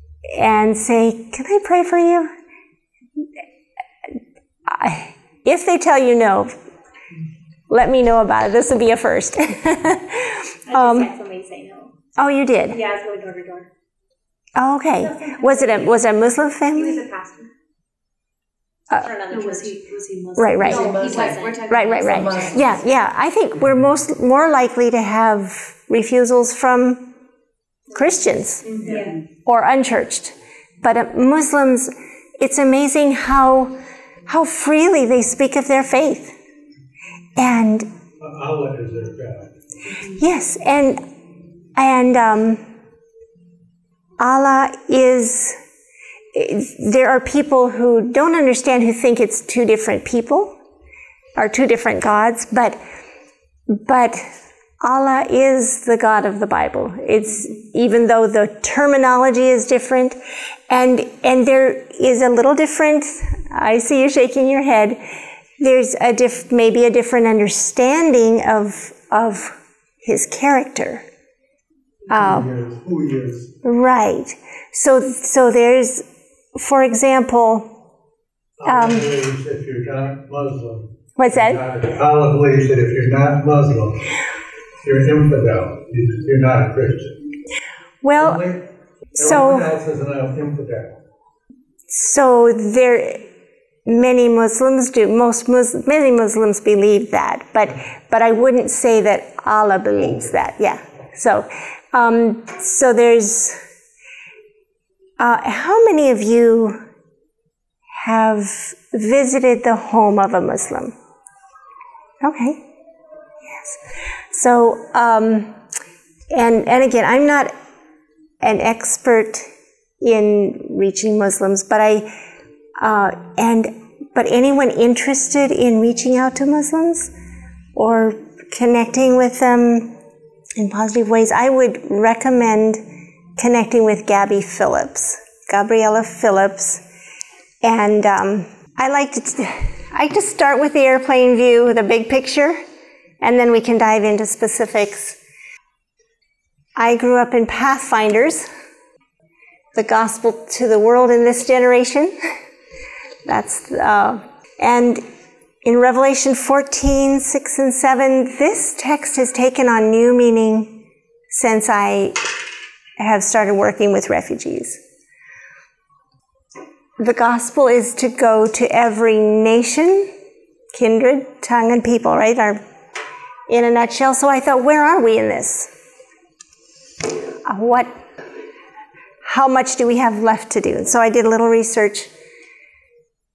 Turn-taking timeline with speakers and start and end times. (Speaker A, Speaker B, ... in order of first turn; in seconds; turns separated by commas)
Speaker A: 0.3-2.3, Speaker A: 4.7-6.6, Speaker A: 7.7-11.1, Speaker B: 10.7-11.9, Speaker A: 12.2-12.8, Speaker B: 12.7-13.7, Speaker A: 14.6-17.0, Speaker B: 15.0-16.0, Speaker B: 16.7-17.5, Speaker B: 19.0-19.8, Speaker C: 19.2-22.8, Speaker A: 20.4-20.9, Speaker B: 20.6-22.7, Speaker A: 21.7-27.1, Speaker A: 27.9-28.7, Speaker C: 28.7-29.2, Speaker B: 28.7-29.2, Speaker A: 29.4-33.8, Speaker A: 34.3-36.4, Speaker A: 37.4-37.9, Speaker D: 38.2-39.5, Speaker A: 40.2-41.0, Speaker A: 41.8-42.6, Speaker A: 44.2-45.6, Speaker A: 46.3-50.6, Speaker A: 51.4-52.8, Speaker A: 53.7-54.3, Speaker A: 54.8-60.2, Speaker A: 60.7-65.0, Speaker A: 65.6-71.0, Speaker A: 72.1-72.5, Speaker D: 72.1-73.5, Speaker A: 73.6-76.0, Speaker A: 76.6-77.8, Speaker D: 78.6-84.1, Speaker A: 78.7-79.1, Speaker A: 81.2-81.6, Speaker D: 84.8-87.2, Speaker A: 88.0-88.4, Speaker D: 88.1-91.0, Speaker A: 89.2-89.7, Speaker A: 91.9-93.3, Speaker A: 93.9-103.6, Speaker A: 105.2-106.8, Speaker A: 107.9-111.0, Speaker A: 112.2-112.6, Speaker A: 113.5-113.8, Speaker A: 114.3-115.5, Speaker A: 116.3-117.5, Speaker A: 118.4-119.5, Speaker A: 120.0-122.1, Speaker A: 122.8-127.1, Speaker A: 127.8-130.0, Speaker A: 130.6-132.8, Speaker A: 133.4-136.8, Speaker A: 137.6-142.6, Speaker A: 143.2-145.2, Speaker A: 146.8-148.5, Speaker A: 149.8-152.1, Speaker A: 153.3-155.1, Speaker A: 155.6-162.2, Speaker A: 163.0-164.8, Speaker A: 167.0-170.1, Speaker A: 170.7-172.6, Speaker A: 173.5-175.7, Speaker A: 177.5-177.9, Speaker A: 179.2-182.1